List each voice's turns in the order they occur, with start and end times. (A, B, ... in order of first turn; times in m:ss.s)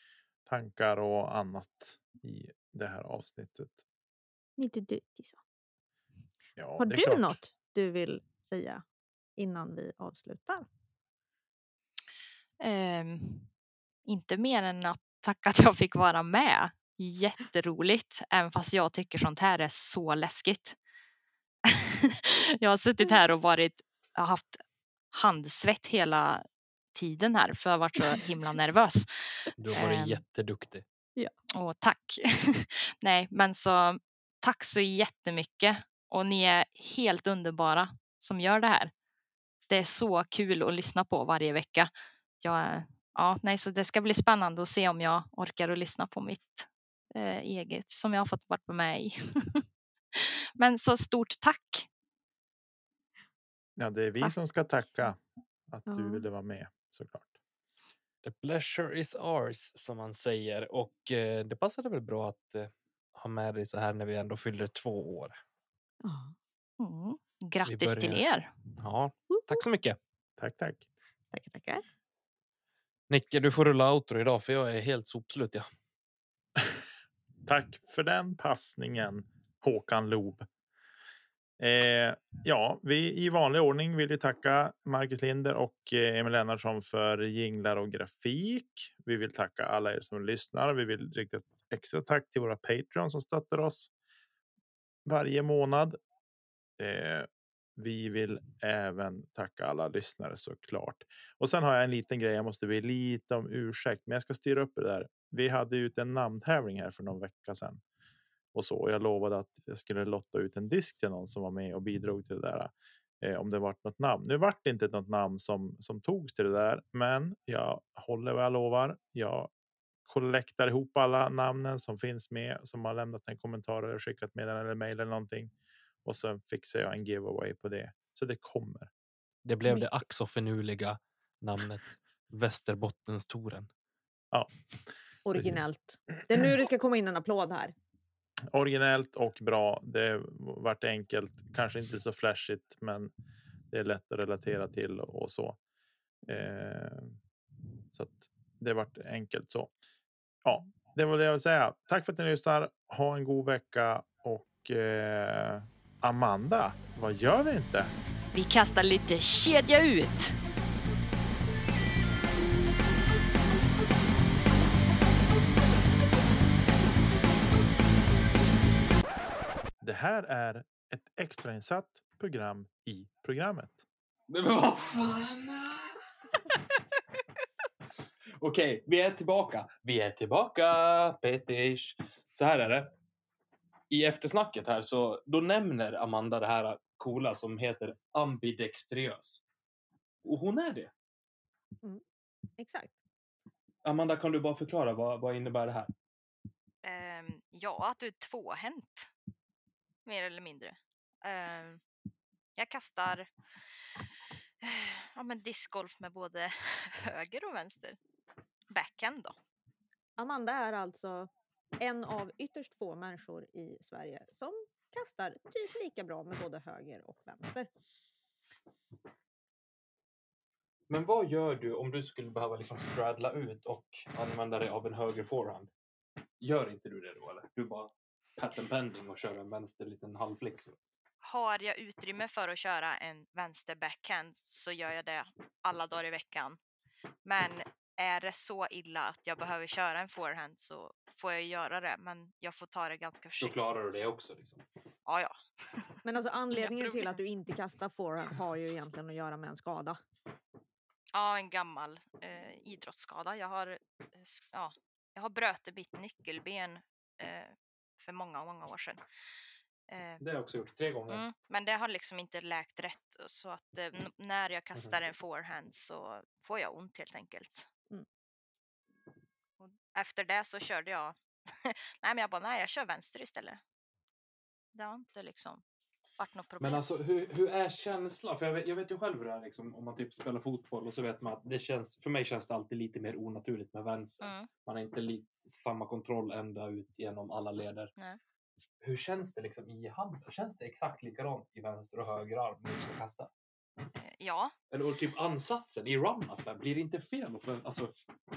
0:00.4-0:03.8 A
0:04.6-0:05.4 B
0:06.6-0:07.4 A
0:06.8-0:08.8 B
0:09.4-0:10.6 B
0:12.6-0:13.5 C
0:14.0-0:20.8 C
0:21.7-0:30.2 C
0:29.6-0:30.8 D
0:31.5-0:38.9 C
0:39.7-0:51.9 C
0:53.8-0:57.3 A
0:55.9-0:56.2 B
0:58.2-1:05.4 D
1:06.0-1:06.3 B
1:06.8-1:08.5 C
1:07.6-1:08.2 D
1:08.8-1:10.0 D
1:09.3-1:09.6 B
1:10.4-1:10.8 A
1:11.3-1:11.8 B
1:13.1-1:15.7 D
1:17.4-1:20.4 A
1:21.6-1:33.9 A
1:35.0-1:36.0 A
1:36.8-1:47.8 A
1:48.5-1:59.5 A
2:00.0-2:05.5 A
2:06.0-2:08.9 A
2:09.4-2:13.7 D
2:15.2-2:17.7 B
2:15.4-2:15.6 A
2:18.5-2:23.1 A
2:23.7-2:25.6 A
2:26.3-2:27.2 A
2:27.9-2:29.7 A
2:30.4-2:37.9 A
2:38.3-2:40.4 C
2:49.8-2:53.8 A
2:54.3-2:56.0 D
2:58.4-3:02.9 D
3:03.9-3:09.4 D
3:10.2-3:10.9 D
3:12.6-3:13.0 B
3:13.8-3:15.9 D
3:16.8-3:19.1 C
3:20.0-3:21.8 C
3:22.6-3:23.3 C
3:24.6-3:28.0 C
3:28.7-3:29.3 C
3:30.2-3:37.7 B
3:40.9-3:45.7 D
3:46.4-3:50.8 D
3:51.2-3:56.6 C
3:57.2-4:03.7 C
4:03.4-4:04.6 D
4:05.1-4:06.0 C
4:06.0-4:10.0 B
4:06.5-4:07.2 C
4:11.1-4:19.0 C
4:19.9-4:20.2 C
4:20.2-4:21.2 D
4:21.1-4:27.7 C
4:29.6-4:33.6 C
4:34.7-4:35.6 C
4:36.2-4:36.8 C
4:36.6-4:47.9 D
4:44.2-4:44.5 C
4:48.8-4:53.3 D
4:54.0-4:54.5 C
4:54.7-4:57.9 D